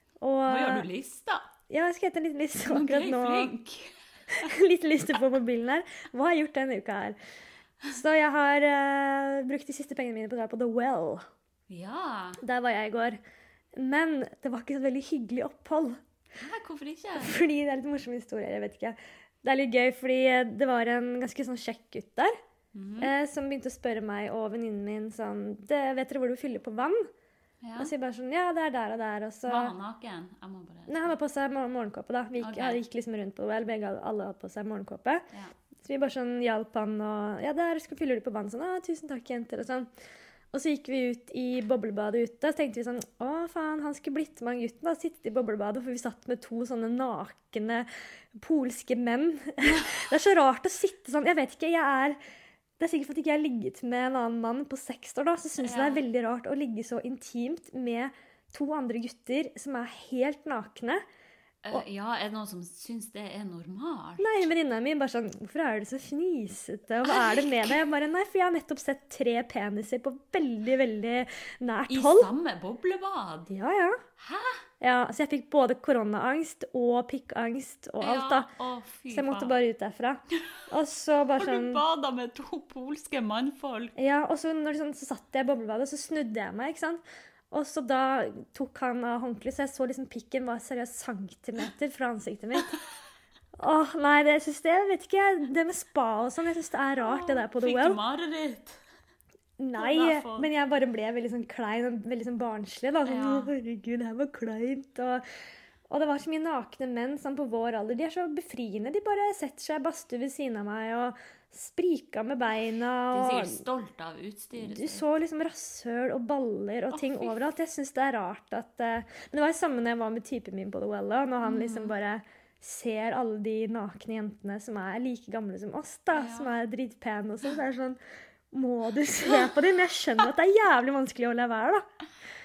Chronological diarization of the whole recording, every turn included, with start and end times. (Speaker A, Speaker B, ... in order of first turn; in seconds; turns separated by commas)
Speaker A: 0.2-0.9, Speaker B: 0.5-1.4, Speaker A: 1.7-3.5, Speaker B: 2.6-4.5, Speaker A: 4.3-7.2, Speaker A: 7.9-11.2, Speaker B: 11.7-12.4, Speaker A: 12.4-13.2, Speaker A: 13.8-16.0, Speaker B: 16.4-17.4, Speaker A: 17.2-22.3, Speaker B: 22.7-23.1, Speaker A: 23.0-27.1, Speaker B: 27.6-27.9, Speaker A: 27.8-29.7, Speaker B: 29.4-31.1, Speaker A: 30.9-35.2, Speaker B: 32.4-32.8, Speaker A: 35.8-39.9, Speaker A: 40.5-52.2, Speaker A: 52.8-61.0, Speaker B: 55.6-56.0, Speaker B: 61.6-64.5, Speaker A: 64.2-72.3, Speaker B: 67.1-67.8, Speaker B: 71.9-73.5, Speaker A: 73.5-74.0, Speaker B: 74.2-74.6, Speaker A: 74.8-78.5, Speaker B: 78.0-79.6, Speaker A: 79.1-81.8, Speaker B: 81.4-83.9, Speaker A: 84.0-92.8, Speaker A: 93.6-98.0, Speaker B: 97.0-98.8, Speaker A: 99.6-105.2, Speaker B: 99.8-100.5, Speaker B: 103.1-103.5, Speaker A: 105.9-113.6, Speaker B: 113.1-115.0, Speaker A: 114.6-128.0, Speaker B: 116.9-117.3, Speaker B: 121.4-121.9, Speaker B: 126.1-126.6, Speaker A: 128.5-131.8